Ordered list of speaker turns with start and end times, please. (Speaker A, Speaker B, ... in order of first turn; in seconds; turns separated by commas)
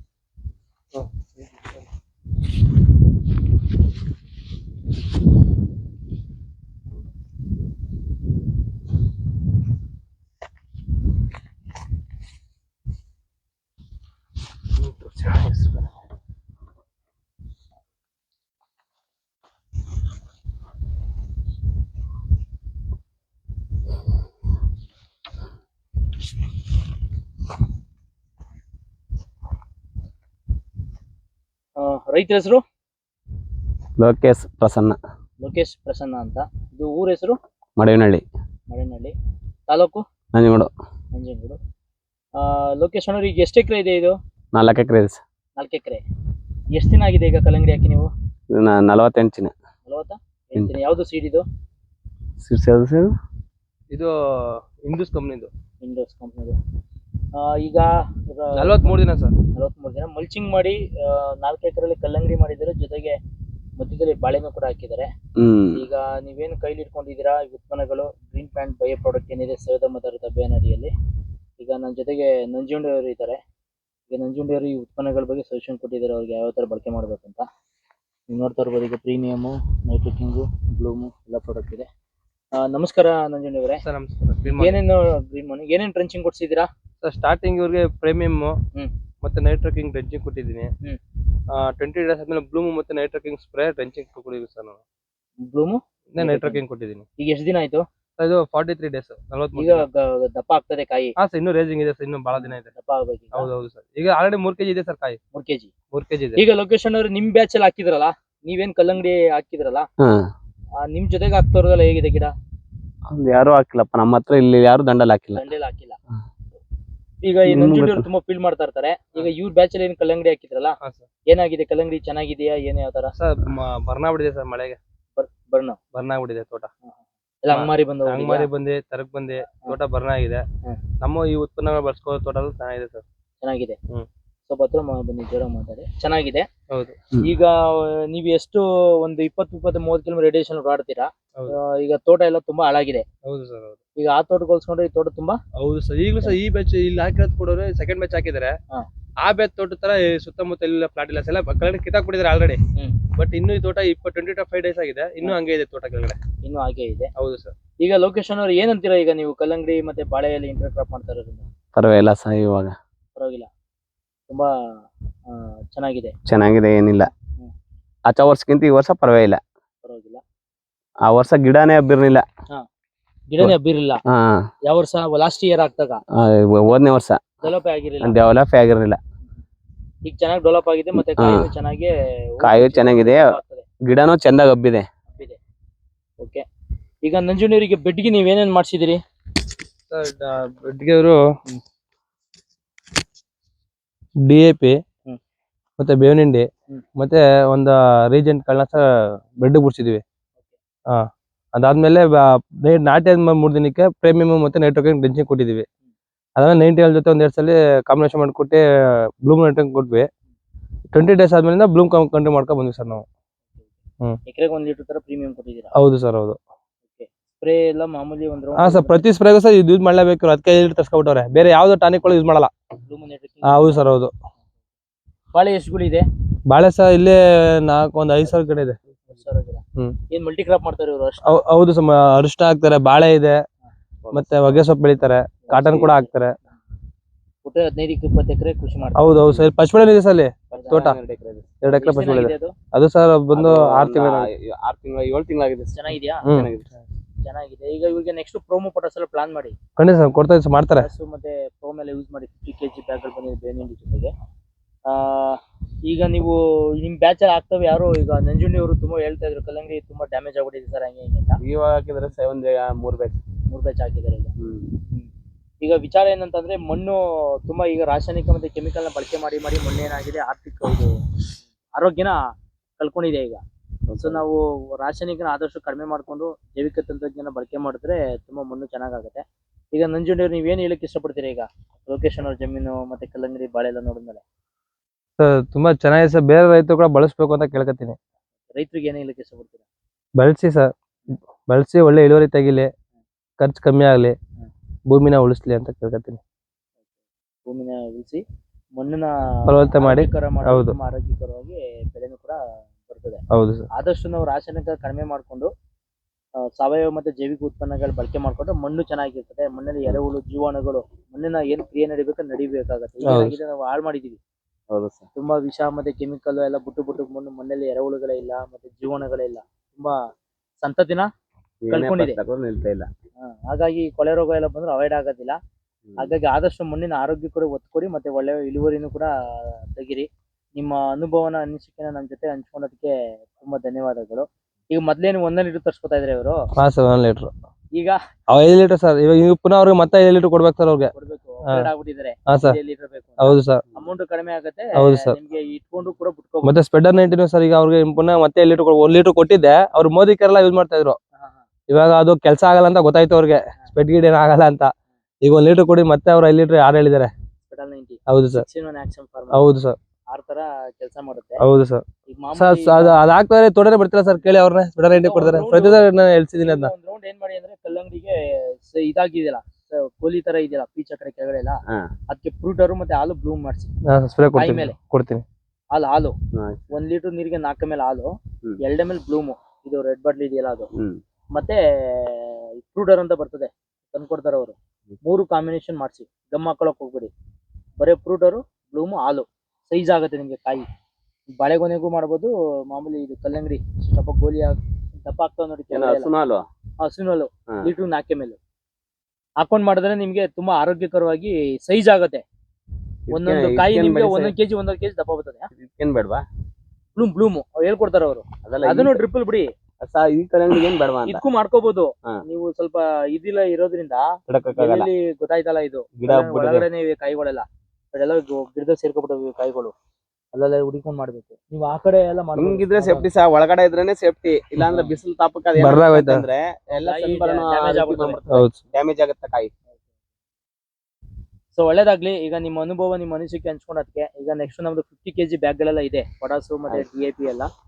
Speaker A: 0.9-1.8, Speaker A: 14.8-15.9, Speaker B: 31.8-32.6, Speaker C: 34.0-35.0, Speaker B: 35.4-37.4, Speaker C: 37.8-38.2, Speaker B: 38.7-39.1, Speaker B: 39.7-40.0, Speaker C: 40.3-40.7, Speaker B: 41.1-41.6, Speaker B: 42.4-44.2, Speaker C: 44.5-45.2, Speaker B: 45.6-46.0, Speaker B: 46.7-48.1, Speaker C: 48.5-49.5, Speaker B: 49.9-51.4, Speaker C: 52.4-53.1, Speaker A: 53.9-55.5, Speaker B: 55.8-56.6, Speaker B: 57.4-63.2, Speaker A: 58.6-59.4, Speaker B: 63.8-65.1, Speaker C: 65.4-65.8, Speaker B: 65.8-70.9, Speaker B: 71.6-73.4, Speaker B: 74.1-77.5, Speaker B: 78.3-81.9, Speaker B: 82.5-83.8, Speaker A: 83.8-84.8, Speaker B: 84.5-86.7, Speaker A: 87.0-88.6, Speaker A: 89.2-90.7, Speaker A: 91.5-94.8, Speaker B: 95.4-96.6, Speaker A: 96.1-97.0, Speaker B: 97.2-97.8, Speaker A: 98.2-99.9, Speaker B: 99.5-101.1, Speaker A: 101.2-102.7, Speaker B: 102.3-103.5, Speaker A: 103.3-105.2, Speaker B: 105.3-105.7, Speaker A: 105.9-106.4, Speaker B: 106.4-109.9, Speaker C: 110.0-110.3, Speaker B: 110.8-112.3, Speaker C: 113.1-115.4, Speaker B: 115.4-116.0, Speaker B: 117.2-120.8, Speaker C: 117.5-118.1, Speaker A: 120.8-121.1, Speaker B: 121.3-123.1, Speaker A: 123.2-124.8, Speaker B: 125.2-125.8, Speaker A: 125.9-126.7, Speaker B: 126.8-128.5, Speaker A: 127.5-130.4, Speaker A: 131.0-133.0, Speaker B: 133.4-133.8, Speaker B: 134.5-136.5, Speaker A: 136.7-137.0, Speaker B: 137.2-143.1, Speaker A: 143.2-143.8, Speaker B: 144.0-145.4, Speaker A: 145.6-148.5, Speaker A: 149.2-156.2, Speaker B: 152.8-153.0, Speaker B: 156.4-157.1, Speaker A: 157.2-157.5, Speaker B: 157.8-161.5, Speaker C: 161.8-162.8, Speaker B: 163.2-163.5, Speaker B: 165.3-166.1, Speaker C: 166.3-167.1, Speaker C: 168.1-169.4, Speaker B: 169.8-170.2, Speaker C: 171.1-172.2, Speaker B: 173.3-174.0, Speaker C: 174.1-174.4, Speaker B: 174.7-176.0, Speaker C: 176.2-177.4, Speaker B: 177.4-178.2, Speaker C: 178.0-179.0, Speaker B: 180.0-183.7, Speaker C: 181.2-181.5, Speaker C: 182.4-184.9, Speaker B: 185.1-185.4, Speaker B: 186.2-186.4, Speaker B: 187.0-189.0, Speaker A: 189.9-191.2, Speaker A: 194.2-194.8, Speaker A: 195.8-200.0, Speaker A: 200.9-205.7, Speaker A: 206.4-210.1, Speaker A: 210.9-213.1, Speaker B: 214.3-215.7, Speaker A: 215.8-216.4, Speaker B: 216.9-219.1, Speaker A: 218.6-222.5, Speaker B: 222.9-224.0, Speaker A: 223.5-224.1, Speaker B: 225.3-226.1, Speaker A: 226.5-228.8, Speaker B: 229.1-231.4, Speaker A: 231.2-233.4, Speaker C: 234.0-234.6, Speaker A: 234.1-236.3, Speaker B: 235.5-236.1, Speaker B: 237.4-239.4, Speaker A: 239.0-241.0, Speaker C: 240.5-241.5, Speaker B: 240.5-240.9, Speaker A: 241.6-244.3, Speaker B: 241.7-242.6, Speaker C: 243.3-246.7, Speaker B: 245.7-246.3, Speaker A: 246.2-246.5, Speaker B: 247.2-249.6, Speaker A: 249.8-250.9, Speaker B: 250.7-254.1, Speaker B: 254.9-261.4, Speaker C: 261.4-263.2, Speaker B: 263.5-264.3, Speaker C: 264.4-264.7, Speaker B: 265.6-271.0, Speaker B: 271.8-272.2, Speaker B: 272.8-273.4, Speaker C: 273.9-274.2, Speaker B: 274.0-284.2, Speaker A: 285.2-288.0, Speaker B: 288.5-289.6, Speaker A: 290.2-290.7, Speaker A: 291.5-292.7, Speaker A: 293.4-294.2, Speaker A: 294.9-296.2, Speaker B: 297.4-298.2, Speaker B: 298.8-303.2, Speaker A: 299.5-300.8, Speaker A: 303.3-303.7, Speaker B: 303.7-305.5, Speaker B: 306.5-314.2, Speaker A: 313.1-313.4, Speaker C: 314.7-315.1, Speaker B: 315.1-319.9, Speaker B: 320.6-321.1, Speaker C: 321.6-322.9, Speaker B: 321.7-322.2, Speaker B: 323.2-325.4, Speaker C: 325.9-326.1, Speaker B: 326.0-336.4, Speaker A: 336.6-337.3, Speaker A: 338.3-340.9, Speaker B: 340.9-346.6, Speaker A: 342.3-342.6, Speaker A: 343.2-343.6, Speaker A: 344.8-345.2, Speaker A: 346.4-351.0, Speaker B: 351.2-351.4, Speaker A: 351.7-354.7, Speaker A: 355.2-357.1, Speaker B: 357.4-359.5, Speaker A: 358.1-358.4, Speaker A: 359.3-359.8, Speaker B: 360.1-361.4, Speaker A: 361.4-366.7, Speaker B: 362.1-363.0, Speaker B: 364.9-373.7, Speaker A: 373.9-375.2, Speaker B: 374.3-374.8, Speaker B: 375.7-376.1, Speaker C: 376.3-376.7, Speaker B: 376.7-380.7, Speaker B: 381.3-387.1, Speaker B: 387.8-390.7, Speaker B: 391.4-396.1, Speaker C: 395.7-396.4, Speaker B: 396.8-398.4, Speaker B: 399.4-402.2, Speaker C: 403.1-404.3, Speaker B: 403.1-405.5, Speaker C: 405.6-406.2, Speaker B: 406.9-409.5, Speaker C: 408.4-409.0, Speaker C: 409.8-411.2, Speaker B: 411.1-419.7, Speaker C: 414.3-414.9, Speaker C: 416.0-416.7, Speaker B: 420.3-423.1, Speaker C: 422.4-429.5, Speaker B: 424.6-425.0, Speaker A: 425.6-426.2, Speaker B: 426.8-428.2, Speaker A: 428.3-428.6, Speaker B: 431.5-437.5